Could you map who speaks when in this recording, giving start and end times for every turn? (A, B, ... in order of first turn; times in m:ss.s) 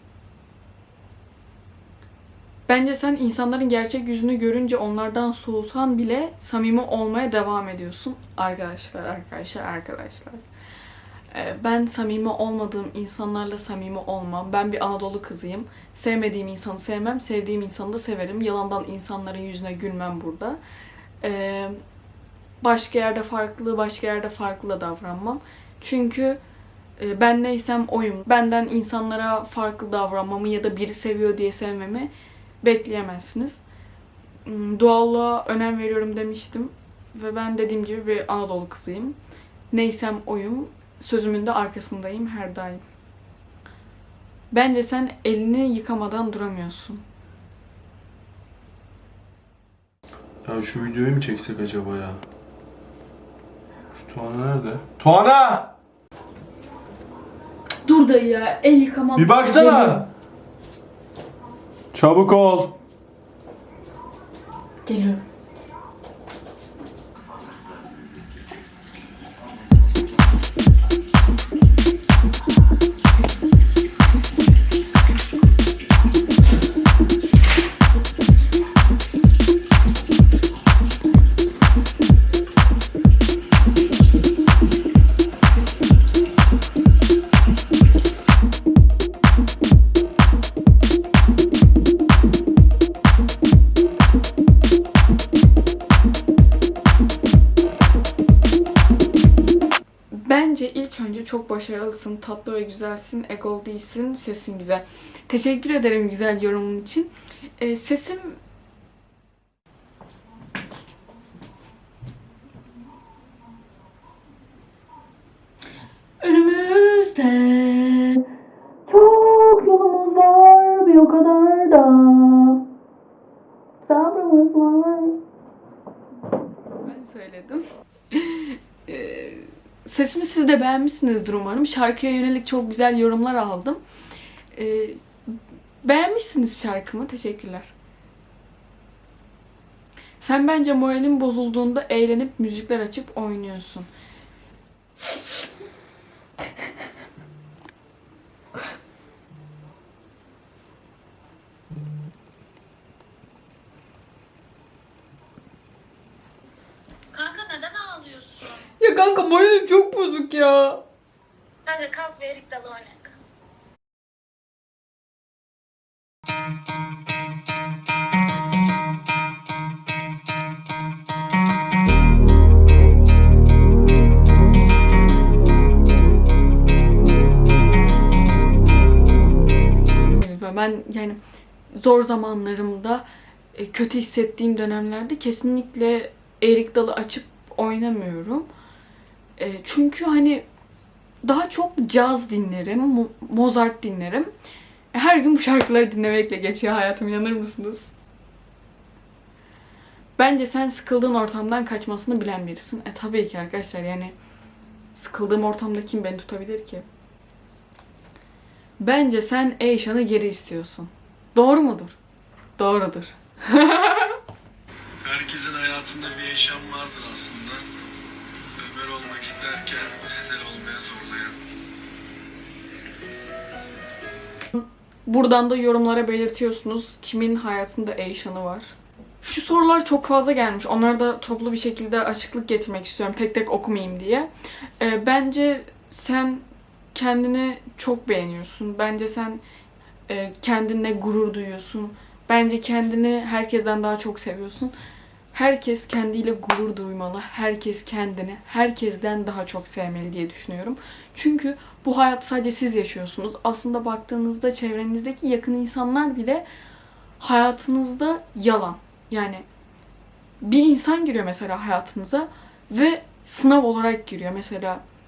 0:02.7-0:10.4 A
0:11.3-0:20.6 A
0:21.2-0:21.8 A
0:22.6-0:26.4 A
0:27.0-0:32.1 A
0:32.6-0:33.6 A
0:34.4-0:39.2 A
0:39.7-0:42.8 A
0:44.5-0:47.0 A
0:50.4-0:52.2 B
0:53.9-0:55.7 B
0:57.8-1:00.0 A
0:59.2-1:00.1 B
1:01.9-1:02.8 B
1:04.8-1:05.2 A
1:40.1-1:48.4 A
1:56.2-1:58.2 A
1:58.9-2:02.6 A
2:03.8-2:05.2 A
2:06.8-2:13.8 A
2:14.5-2:17.7 A
2:20.2-2:23.9 A
2:37.1-2:38.7 C
2:38.7-2:40.8 A
2:41.6-2:43.1 C
3:00.1-3:01.2 A
3:01.7-3:08.5 A
3:09.4-3:10.4 A
3:11.2-3:14.3 A
3:14.9-3:17.9 A
3:20.2-3:24.1 A
3:24.9-3:26.8 A
3:28.8-3:32.0 A
3:32.6-3:34.2 A
3:35.0-3:37.6 B
3:38.6-3:41.4 B
3:44.5-3:54.3 A
3:54.8-3:59.4 A
4:00.1-4:04.7 A
4:05.3-4:16.4 A
4:17.2-4:19.4 A
4:20.4-4:24.8 A